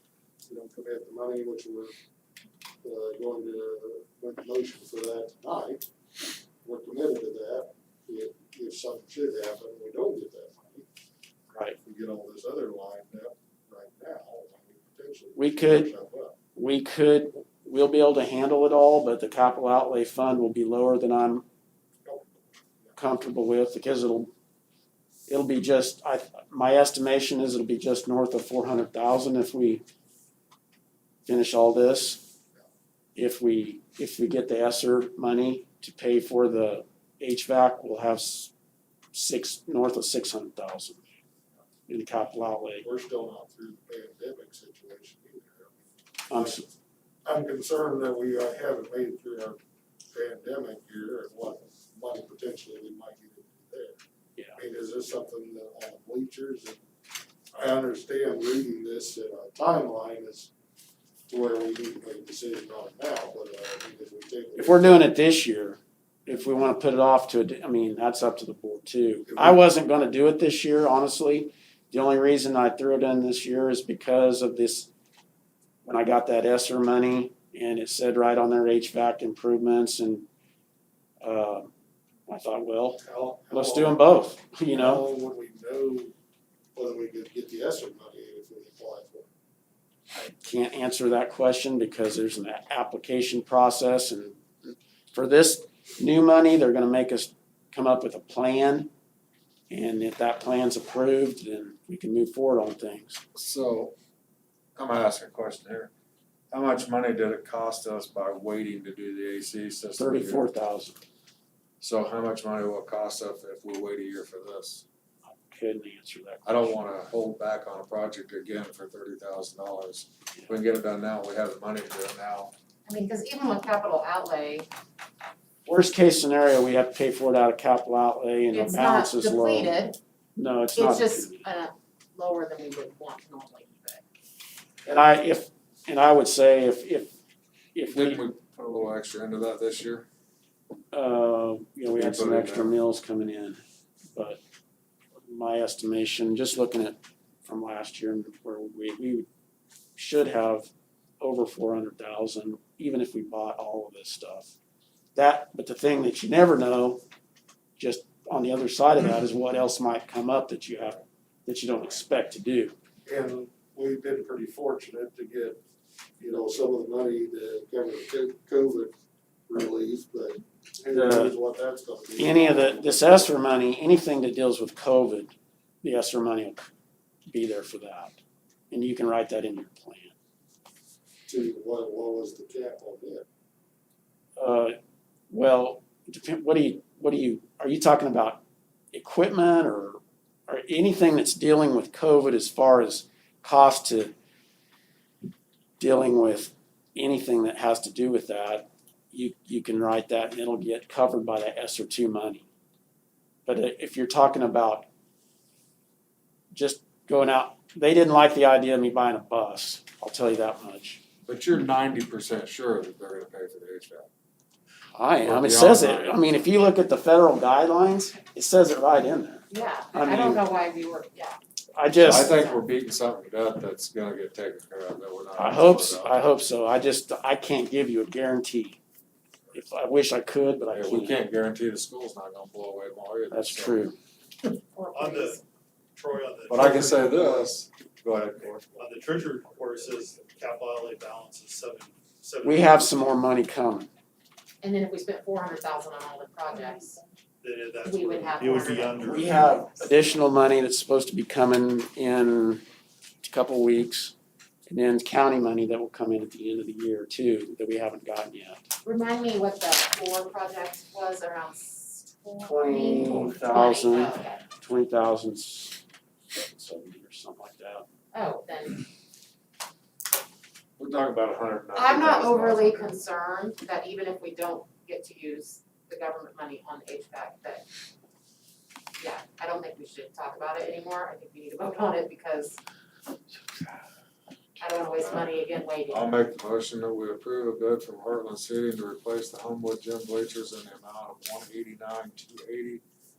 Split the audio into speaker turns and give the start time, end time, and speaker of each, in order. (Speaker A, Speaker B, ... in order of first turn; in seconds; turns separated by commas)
Speaker A: 0.5-1.9, Speaker A: 2.8-5.9, Speaker A: 6.6-10.9, Speaker A: 11.8-16.4, Speaker B: 15.4-15.9, Speaker B: 16.5-21.4, Speaker A: 22.0-22.9, Speaker B: 23.0-24.3, Speaker B: 25.3-29.8, Speaker B: 31.2-32.2, Speaker B: 33.1-38.5, Speaker B: 39.1-41.0, Speaker B: 41.9-42.9, Speaker A: 42.8-46.7, Speaker B: 46.3-46.6, Speaker A: 47.2-49.6, Speaker A: 50.1-54.0, Speaker A: 54.5-56.8, Speaker A: 57.5-60.5, Speaker A: 61.3-65.1, Speaker B: 64.6-74.9, Speaker A: 69.3-69.6, Speaker B: 75.8-80.3, Speaker B: 81.2-81.7, Speaker B: 82.3-85.0, Speaker A: 83.0-84.0, Speaker A: 84.7-86.2, Speaker A: 86.8-89.3, Speaker B: 90.1-98.9, Speaker B: 99.7-103.2, Speaker C: 103.3-103.9, Speaker C: 104.8-105.9, Speaker C: 106.5-110.5, Speaker B: 110.0-111.0, Speaker C: 111.8-114.8, Speaker B: 115.2-116.8, Speaker C: 116.5-122.5, Speaker D: 122.8-124.7, Speaker B: 125.7-129.8, Speaker D: 128.5-130.0, Speaker B: 130.3-131.4, Speaker D: 130.7-134.0, Speaker B: 134.8-137.1, Speaker B: 137.7-138.2, Speaker C: 137.9-140.1, Speaker B: 140.9-143.6, Speaker C: 141.9-142.7, Speaker B: 144.1-144.4, Speaker B: 145.3-149.3, Speaker B: 149.9-150.7, Speaker B: 151.2-154.5, Speaker B: 155.2-157.0, Speaker B: 157.8-162.8, Speaker A: 163.1-165.6, Speaker A: 166.2-168.9, Speaker A: 169.5-173.3, Speaker B: 170.9-171.3, Speaker B: 172.2-176.7, Speaker B: 177.3-178.2, Speaker B: 178.7-180.2, Speaker A: 181.3-183.2, Speaker B: 184.4-184.8, Speaker B: 185.3-188.4, Speaker B: 188.9-194.1, Speaker B: 195.8-202.5, Speaker B: 203.5-204.9, Speaker B: 206.5-211.0, Speaker C: 211.2-214.1, Speaker B: 214.9-220.4, Speaker C: 215.2-216.2, Speaker D: 219.5-221.4, Speaker B: 221.8-222.4, Speaker C: 222.0-226.2, Speaker D: 222.1-222.6, Speaker B: 225.4-228.8, Speaker B: 229.5-231.2, Speaker C: 230.7-233.8, Speaker B: 233.3-234.0, Speaker D: 234.7-235.4, Speaker E: 234.9-235.4, Speaker E: 235.9-237.2, Speaker C: 236.5-238.7, Speaker E: 238.8-242.8, Speaker B: 242.4-243.9, Speaker D: 244.6-247.0, Speaker E: 247.4-249.4, Speaker D: 247.8-250.0, Speaker B: 249.0-252.6, Speaker B: 253.2-254.2, Speaker B: 254.7-258.6, Speaker D: 258.8-264.4, Speaker B: 262.4-267.9, Speaker D: 268.1-268.8, Speaker C: 270.8-273.0, Speaker D: 271.7-277.6, Speaker D: 279.0-282.6, Speaker D: 284.6-286.1, Speaker C: 285.9-292.8